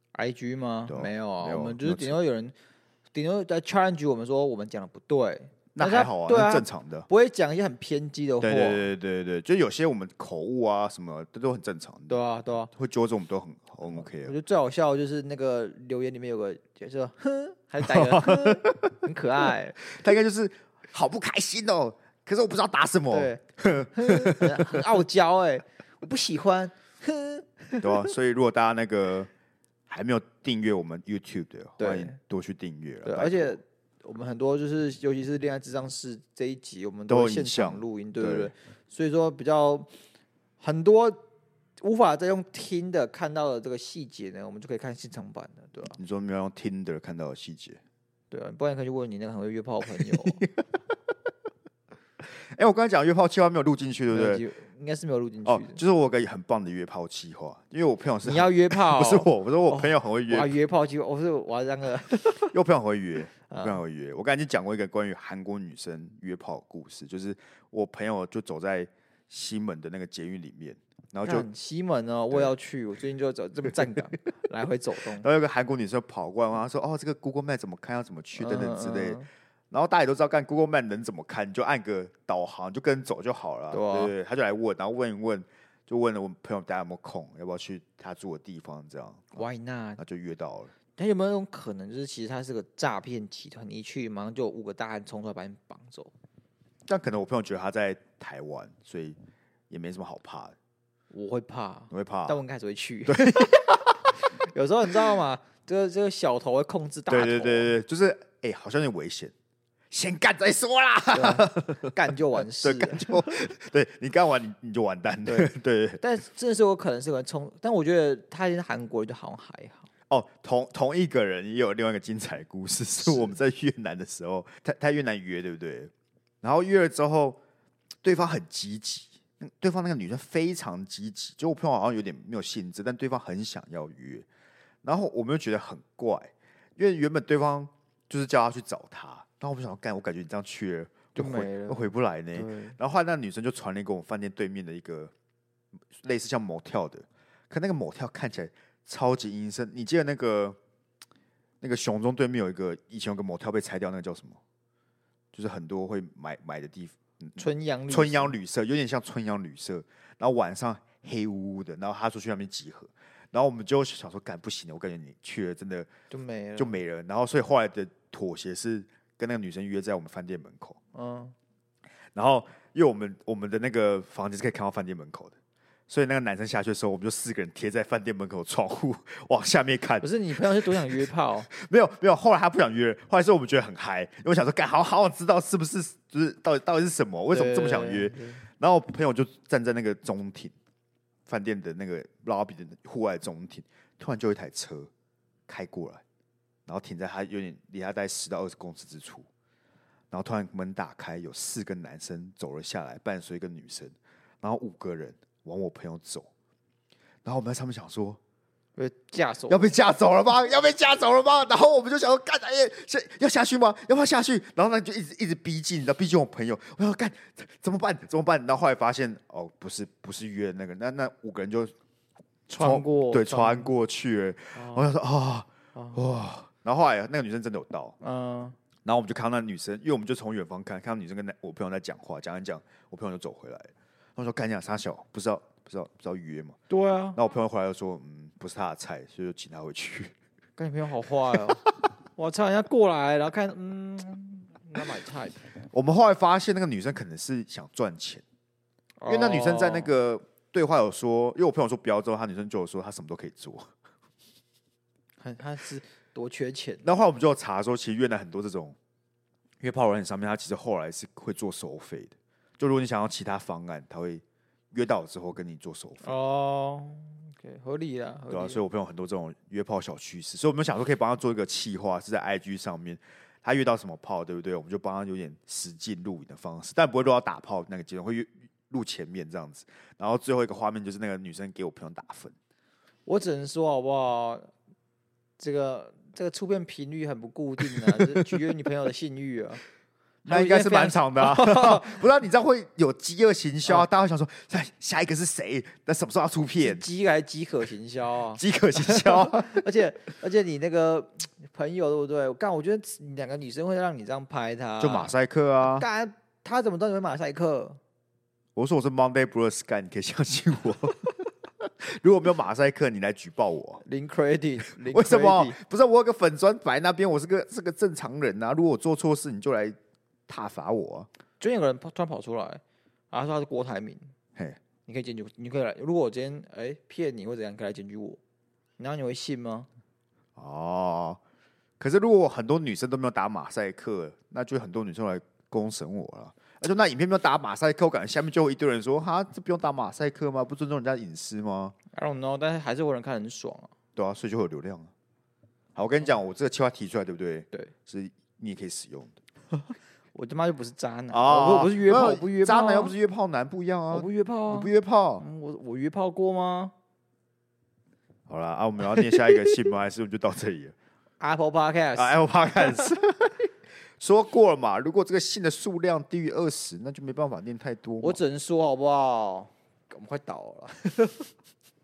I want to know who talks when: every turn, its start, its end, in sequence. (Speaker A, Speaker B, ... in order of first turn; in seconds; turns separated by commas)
Speaker A: 0.1-2.5, Speaker B: 0.9-2.2, Speaker A: 3.1-8.9, Speaker B: 5.7-7.1, Speaker B: 8.4-12.2, Speaker A: 12.1-12.7, Speaker B: 12.7-14.3, Speaker A: 13.9-19.8, Speaker B: 17.8-19.0, Speaker B: 19.8-24.8, Speaker A: 23.1-28.0, Speaker B: 27.8-29.3, Speaker B: 29.9-33.6, Speaker A: 31.8-32.2, Speaker A: 33.0-39.9, Speaker B: 37.1-38.5, Speaker A: 40.6-41.2, Speaker A: 41.8-46.0, Speaker B: 46.0-47.8, Speaker A: 48.3-50.5, Speaker B: 50.0-50.4, Speaker B: 52.2-54.4, Speaker A: 54.1-55.8, Speaker B: 55.4-60.5, Speaker A: 58.2-62.5, Speaker B: 62.5-71.5, Speaker A: 63.5-63.8, Speaker A: 71.2-75.2, Speaker B: 75.2-89.4, Speaker A: 78.3-79.3, Speaker A: 83.7-84.1, Speaker A: 89.3-90.0, Speaker B: 90.0-90.7, Speaker A: 90.9-96.1, Speaker B: 96.8-99.2, Speaker B: 99.7-100.5, Speaker A: 101.1-107.7, Speaker B: 101.9-102.4, Speaker B: 103.1-104.1, Speaker B: 107.1-109.3, Speaker B: 109.9-116.0, Speaker A: 111.1-113.4, Speaker A: 115.2-119.9, Speaker B: 120.1-127.4, Speaker A: 123.0-123.3, Speaker B: 128.0-134.2, Speaker B: 134.8-145.1, Speaker A: 141.1-142.8, Speaker B: 145.9-150.6, Speaker B: 151.6-154.4, Speaker B: 155.3-165.9, Speaker A: 157.4-158.3, Speaker A: 166.1-166.8, Speaker B: 166.6-170.8, Speaker A: 170.9-171.3, Speaker B: 172.1-175.3, Speaker B: 175.9-180.1, Speaker A: 180.0-181.5, Speaker B: 180.6-190.5, Speaker A: 187.3-188.4, Speaker B: 191.2-194.9, Speaker B: 195.5-196.0, Speaker B: 196.7-199.3, Speaker B: 200.1-206.3, Speaker B: 207.2-208.2, Speaker A: 208.8-209.7, Speaker B: 209.5-221.7, Speaker B: 222.5-227.9, Speaker A: 222.5-223.7, Speaker A: 224.5-224.9, Speaker A: 225.7-226.1, Speaker A: 228.0-228.6, Speaker B: 228.8-236.6, Speaker A: 236.7-237.2, Speaker B: 237.1-240.1, Speaker A: 240.6-245.4, Speaker B: 241.3-241.7, Speaker B: 245.7-248.2, Speaker A: 249.0-249.9, Speaker B: 249.1-253.7, Speaker A: 255.2-256.8, Speaker B: 256.8-258.8, Speaker B: 259.6-266.1, Speaker A: 266.0-268.6, Speaker B: 268.3-282.3, Speaker A: 283.1-284.5, Speaker A: 285.4-289.6, Speaker B: 287.7-288.0, Speaker A: 290.2-292.0, Speaker B: 290.2-296.8, Speaker A: 296.6-307.8, Speaker B: 298.3-299.6, Speaker B: 304.8-305.9, Speaker B: 308.6-311.1, Speaker B: 311.6-313.8, Speaker A: 313.8-315.6, Speaker B: 314.9-319.8, Speaker B: 320.3-321.1, Speaker A: 321.4-324.1, Speaker A: 324.9-328.2, Speaker A: 328.8-329.7, Speaker B: 330.4-331.2, Speaker B: 331.8-341.7, Speaker A: 341.9-343.7, Speaker B: 343.9-344.9, Speaker B: 345.8-349.2, Speaker A: 350.1-352.9, Speaker B: 351.1-355.2, Speaker A: 353.9-356.7, Speaker B: 358.3-360.7, Speaker A: 358.9-359.5, Speaker A: 361.2-362.9, Speaker B: 361.9-363.4, Speaker B: 364.0-368.2, Speaker A: 368.0-371.3